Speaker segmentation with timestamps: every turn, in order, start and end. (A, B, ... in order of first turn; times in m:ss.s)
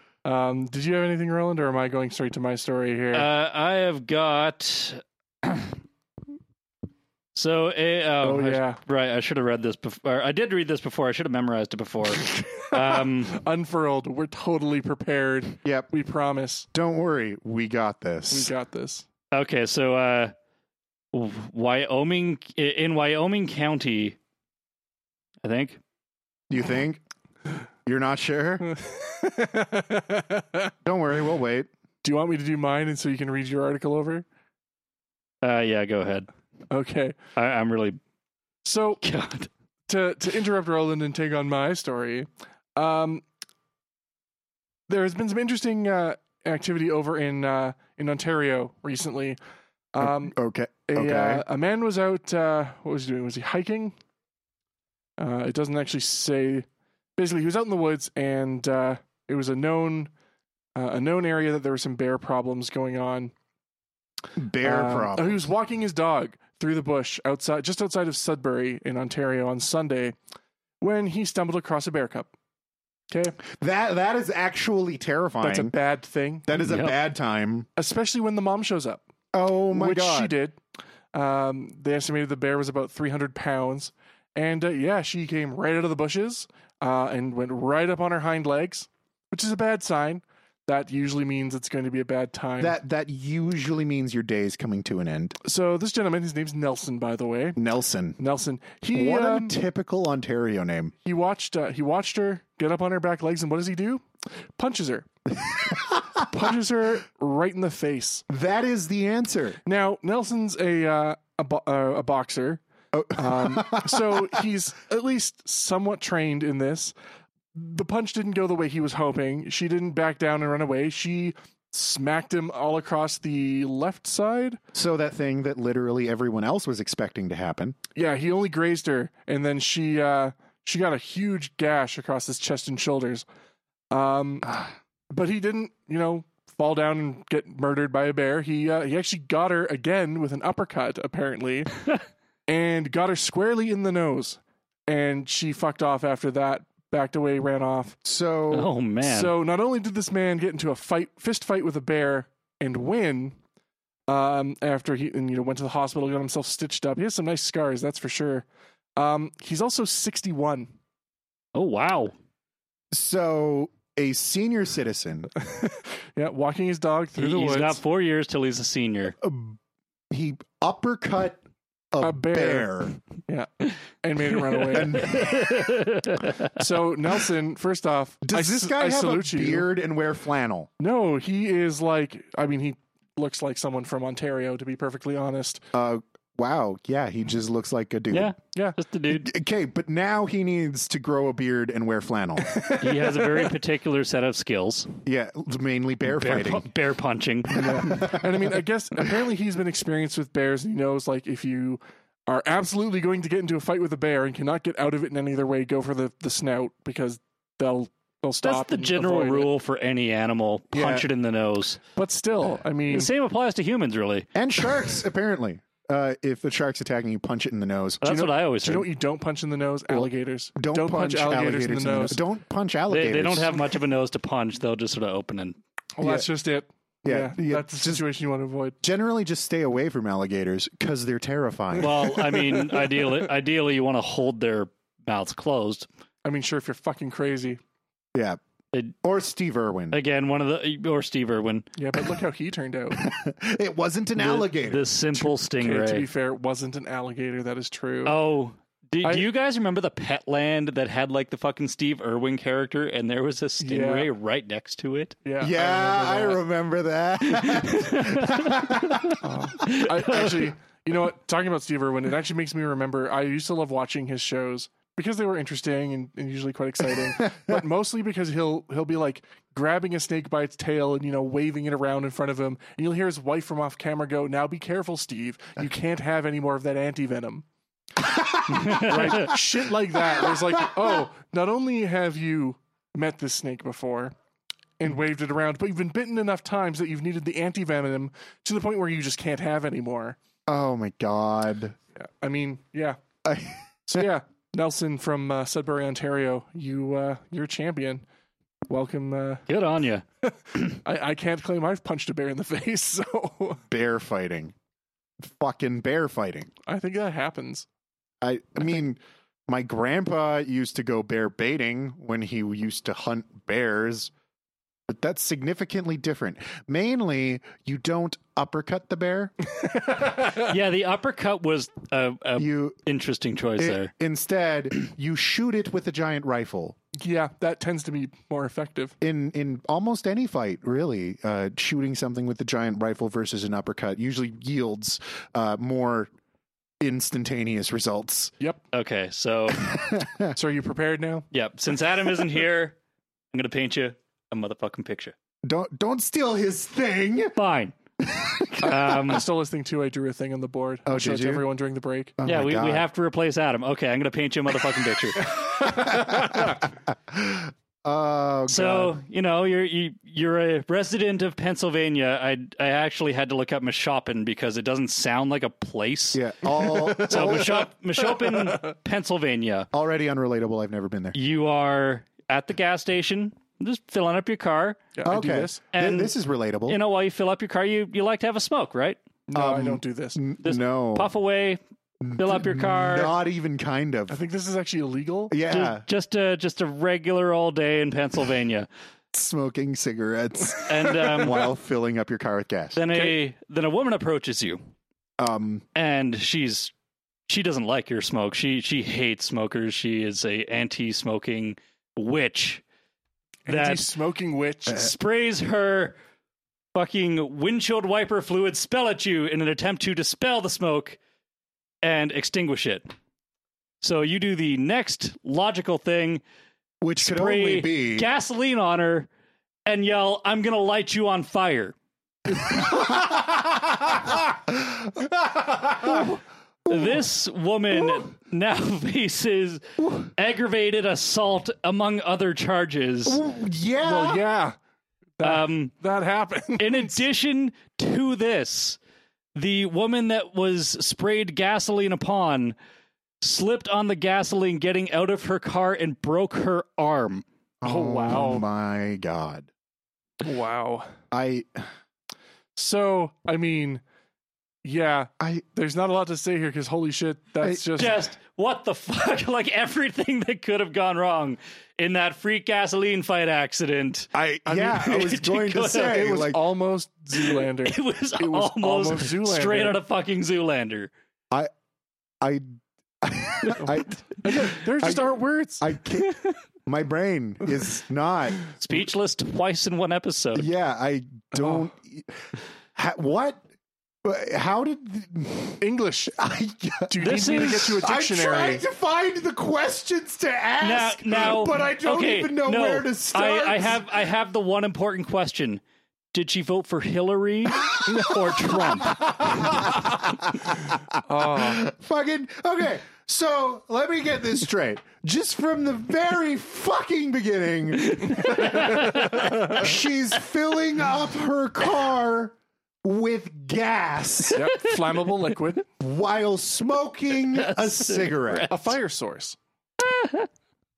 0:00.2-0:03.3 A
0:03.1-0:05.8 B
0:07.3-0:13.4 B
0:08.2-0:08.8 A
0:12.7-0:16.7 A
0:16.7-0:18.5 C
0:18.3-0:19.0 A
0:19.3-0:20.3 B
0:21.1-0:24.2 B
0:25.4-0:25.8 B
0:26.5-0:27.0 C
0:27.8-0:28.7 C
0:28.6-0:30.7 A
0:30.8-0:31.7 C
0:32.0-0:34.2 A
0:35.4-0:36.3 B
0:36.7-0:37.2 A
0:37.4-0:38.0 B
0:38.6-0:39.0 A
0:39.0-0:39.5 B
0:39.9-0:43.2 A
0:44.9-0:49.4 A
0:49.9-0:50.4 A
0:50.0-0:51.4 C
0:50.9-0:53.9 A
0:55.2-0:56.6 A
0:57.2-1:00.1 A
1:00.8-1:03.3 A
1:04.4-1:05.5 C
1:04.6-1:10.1 A
1:10.8-1:12.3 A
1:13.1-1:13.4 A
1:13.5-1:15.7 C
1:15.4-1:16.5 A
1:16.4-1:17.7 C
1:16.6-1:17.0 B
1:17.8-1:19.0 A
1:19.3-1:20.3 C
1:19.7-1:20.6 A
1:21.1-1:32.8 A
1:32.6-1:35.4 C
1:35.4-1:37.6 A
1:37.6-1:38.2 C
1:38.2-1:39.6 A
1:38.9-1:40.9 C
1:41.0-1:45.1 A
1:45.5-1:46.2 C
1:46.2-1:48.2 A
1:48.3-1:49.6 C
1:49.6-1:52.6 A
1:52.9-1:54.4 C
1:53.1-1:56.9 A
1:57.5-2:04.6 A
2:04.7-2:07.8 C
2:07.9-2:13.2 A
2:13.9-2:14.6 A
2:15.1-2:21.7 A
2:22.5-2:28.0 A
2:28.0-2:28.7 C
2:28.5-2:29.3 B
2:29.0-2:33.4 A
2:34.1-2:38.4 A
2:39.0-2:40.7 A
2:41.5-2:42.1 B
2:42.9-2:45.3 C
2:45.4-2:47.8 A
2:47.2-2:49.1 B
2:49.2-2:49.6 C
2:50.1-2:51.4 C
2:51.9-2:52.9 C
2:52.0-2:55.1 A
2:54.6-2:56.5 B
2:54.7-2:55.5 C
2:56.5-2:59.7 A
2:58.2-3:00.7 C
3:00.8-3:05.6 A
3:05.7-3:08.3 C
3:08.1-3:09.3 B
3:09.1-3:12.5 C
3:12.4-3:13.5 A
3:12.8-3:14.9 B
3:15.0-3:16.7 C
3:16.1-3:18.0 B
3:17.5-3:29.5 A
3:17.6-3:18.5 C
3:28.4-3:31.8 B
3:30.7-3:31.1 C
3:32.0-3:33.1 A
3:32.9-3:34.3 B
3:34.3-3:38.0 C
3:38.0-3:38.9 B
3:38.0-3:42.2 A
3:39.9-3:43.6 C
3:42.9-3:45.6 B
3:46.0-3:48.8 A
3:46.0-3:46.2 C
3:47.0-3:48.0 C
3:48.8-3:51.9 C
3:51.8-3:53.2 A
3:51.8-3:55.9 B
3:56.2-3:57.6 A
3:59.0-4:00.0 C
3:59.9-4:01.7 B
4:01.8-4:03.0 A
4:02.9-4:04.8 C
4:04.2-4:06.1 B
4:05.1-4:08.2 A
4:08.0-4:15.1 B
4:13.6-4:14.1 A
4:15.2-4:16.4 A
4:15.4-4:20.4 C
4:17.2-4:20.3 B
4:19.2-4:37.4 A
4:27.3-4:27.6 C
4:38.1-4:39.4 C
4:38.5-4:39.3 B
4:38.7-4:44.1 A
4:40.1-4:40.7 C
4:44.8-4:50.2 A
4:50.5-4:51.8 C
4:52.0-4:53.0 A
4:53.2-4:54.1 C
4:53.9-4:58.0 A
4:58.7-4:59.5 A
4:59.5-5:00.0 B
5:00.2-5:03.6 A
5:03.7-5:04.5 C
5:05.2-5:06.5 C
5:06.6-5:07.6 A
5:08.2-5:14.1 C
5:14.9-5:19.3 C
5:19.7-5:20.4 A
5:20.2-5:23.9 B
5:22.4-5:22.8 C
5:23.6-5:26.8 C
5:27.0-5:28.9 A
5:29.0-5:36.1 C
5:36.8-5:38.3 C
5:38.7-5:39.7 B
5:39.5-5:40.3 C
5:40.3-5:41.3 A
5:41.3-5:42.8 B
5:43.3-5:45.1 B
5:45.4-5:47.4 C
5:47.4-5:47.7 B
5:48.0-5:49.0 C
5:48.6-5:49.2 B
5:48.6-5:52.2 A
5:50.8-5:51.4 C
5:52.2-5:52.8 C
5:52.2-5:55.4 B
5:55.6-5:56.5 A
5:55.6-5:59.0 C
5:58.5-6:09.7 B
6:06.1-6:07.6 C
6:06.7-6:08.6 A
6:09.7-6:11.2 C
6:11.1-6:14.8 B
6:14.9-6:15.6 A
6:15.0-6:16.8 C
6:15.7-6:16.1 B
6:16.7-6:19.0 B
6:19.3-6:20.2 A
6:19.3-6:21.1 C
6:20.4-6:21.6 B
6:22.0-6:24.2 C
6:22.2-6:23.1 B
6:24.1-6:25.4 A
6:25.3-6:25.8 C
6:25.5-6:28.7 B
6:29.1-6:32.8 C
6:30.7-6:31.5 B
6:32.7-6:34.6 B
6:35.2-6:35.6 C
6:35.7-6:36.7 B
6:37.3-6:42.6 B
6:43.4-6:44.8 A
6:43.5-6:43.9 B
6:44.7-6:46.0 B
6:46.7-6:51.0 B
6:51.8-6:52.9 B
6:53.8-6:56.2 B
6:56.8-6:58.1 C
6:57.0-6:59.1 B
6:59.6-7:01.7 B
7:02.3-7:07.0 C
7:06.7-7:13.2 B
7:09.8-7:10.1 C
7:13.0-7:14.2 C
7:13.8-7:14.6 A
7:15.2-7:17.0 A
7:15.2-7:15.7 B
7:16.6-7:18.8 B
7:19.3-7:22.5 B
7:23.2-7:27.2 B
7:27.6-7:29.5 C
7:27.6-7:28.4 A
7:30.2-7:30.9 A
7:31.1-7:31.7 C
7:32.6-7:33.8 A
7:34.6-7:38.0 A
7:37.8-7:44.1 B
7:44.1-7:46.4 C
7:44.5-7:45.2 A
7:44.8-7:46.0 B
7:45.7-7:49.8 A
7:47.1-7:50.9 B
7:53.0-7:55.0 C
7:53.6-7:56.0 A
7:55.6-7:58.4 C
7:58.6-8:00.5 B
8:00.3-8:02.1 C
8:01.4-8:01.6 A
8:02.7-8:03.4 C
8:04.0-8:05.6 C
8:05.6-8:06.2 A
8:06.2-8:13.8 C
8:06.9-8:08.6 A
8:07.0-8:07.8 B
8:10.6-8:15.6 B
8:16.1-8:19.2 B
8:17.6-8:34.4 C
8:21.1-8:21.6 A
8:27.8-8:29.6 B
8:34.3-8:35.6 A
8:35.8-8:38.7 C
8:37.3-8:38.5 B
8:38.5-8:39.4 A
8:39.8-8:40.3 B